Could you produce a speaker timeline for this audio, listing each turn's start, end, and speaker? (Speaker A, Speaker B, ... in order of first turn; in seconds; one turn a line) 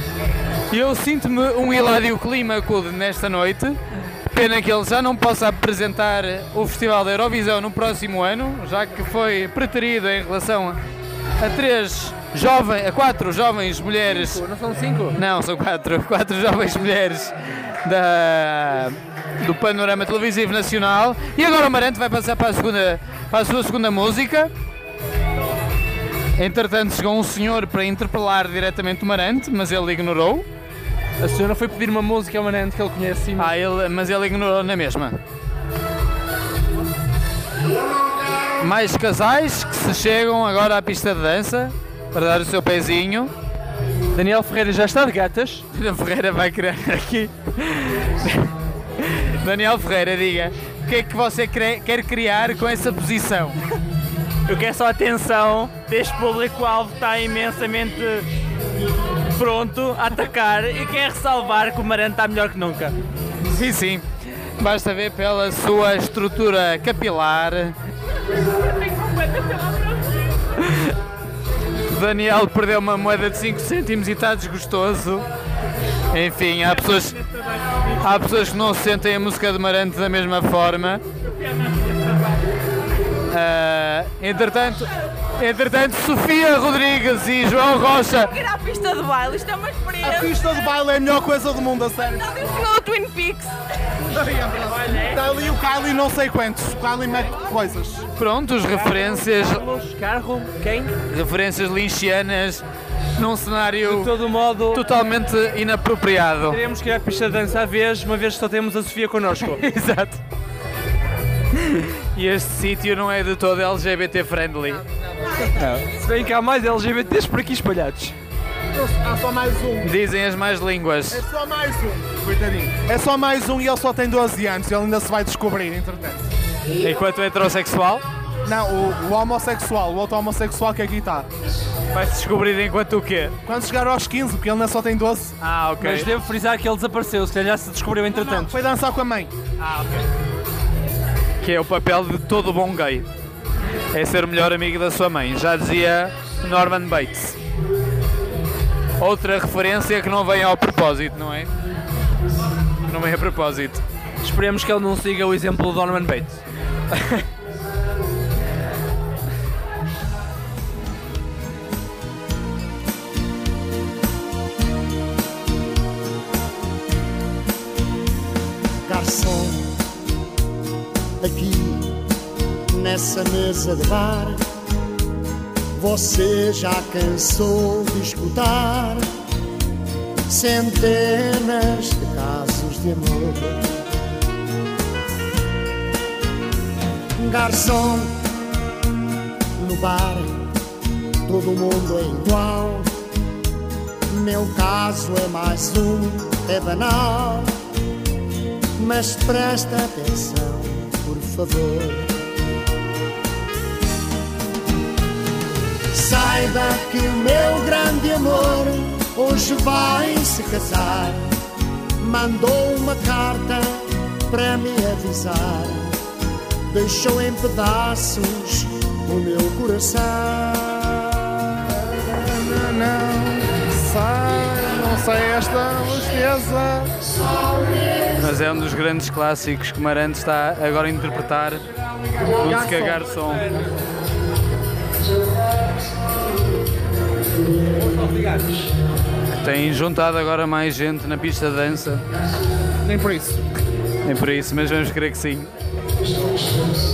Speaker A: 0.7-3.8
Speaker A: 4.3-10.8
Speaker A: 11.4-14.4
Speaker B: 14.3-15.2
Speaker A: 15.2-24.5
Speaker A: 26.4-30.5
Speaker B: 31.2-33.5
Speaker A: 33.4-35.2
Speaker A: 38.6-43.3
Speaker B: 44.1-45.6
Speaker A: 45.7-53.6
Speaker C: 54.5-58.3
Speaker C: 59.4-63.0
Speaker A: 63.5-67.8
Speaker D: 68.8-70.0
Speaker A: 70.6-70.9
Speaker A: 71.9-75.3
Speaker A: 76.1-77.2
Speaker C: 77.2-77.9
Speaker A: 78.0-81.0
Speaker C: 81.4-82.2
Speaker A: 83.3-88.3
Speaker D: 88.2-90.4
Speaker E: 90.0-92.4
Speaker D: 92.0-93.5
Speaker E: 94.1-98.1
Speaker C: 94.9-95.1
Speaker A: 98.2-99.6
Speaker B: 98.7-100.9
Speaker A: 101.1-102.7
Speaker A: 103.2-104.1
Speaker B: 103.8-104.8
Speaker A: 104.7-106.6
Speaker B: 106.5-109.6
Speaker A: 109.6-110.2
Speaker A: 111.6-114.8
Speaker B: 115.5-118.2
Speaker E: 118.7-119.9
Speaker A: 119.8-121.2
Speaker E: 121.1-126.3
Speaker A: 126.8-128.0
Speaker E: 128.4-131.3
Speaker A: 131.9-133.3
Speaker E: 133.5-135.3
Speaker A: 135.4-136.1
Speaker B: 135.8-138.6
Speaker E: 138.1-139.3
Speaker B: 139.6-140.0
Speaker A: 141.4-143.1
Speaker A: 143.9-147.4
Speaker A: 149.0-151.5
Speaker A: 152.9-153.8
Speaker B: 154.2-156.4
Speaker F: 168.8-169.8
Speaker F: 171.2-172.1
Speaker F: 172.7-174.4
Speaker F: 175.8-179.1
Speaker F: 180.3-183.7
Speaker F: 187.2-188.2
Speaker F: 189.6-190.5
Speaker F: 191.2-192.9
Speaker F: 194.1-197.6
Speaker F: 198.8-202.2
Speaker F: 205.9-211.3
Speaker F: 212.0-216.0
Speaker F: 216.7-221.5
Speaker E: 222.0-226.9
Speaker A: 228.2-231.6
Speaker E: 232.4-233.7
Speaker A: 232.4-233.4
Speaker A: 239.3-242.0
Speaker E: 242.8-243.4
Speaker A: 244.1-245.5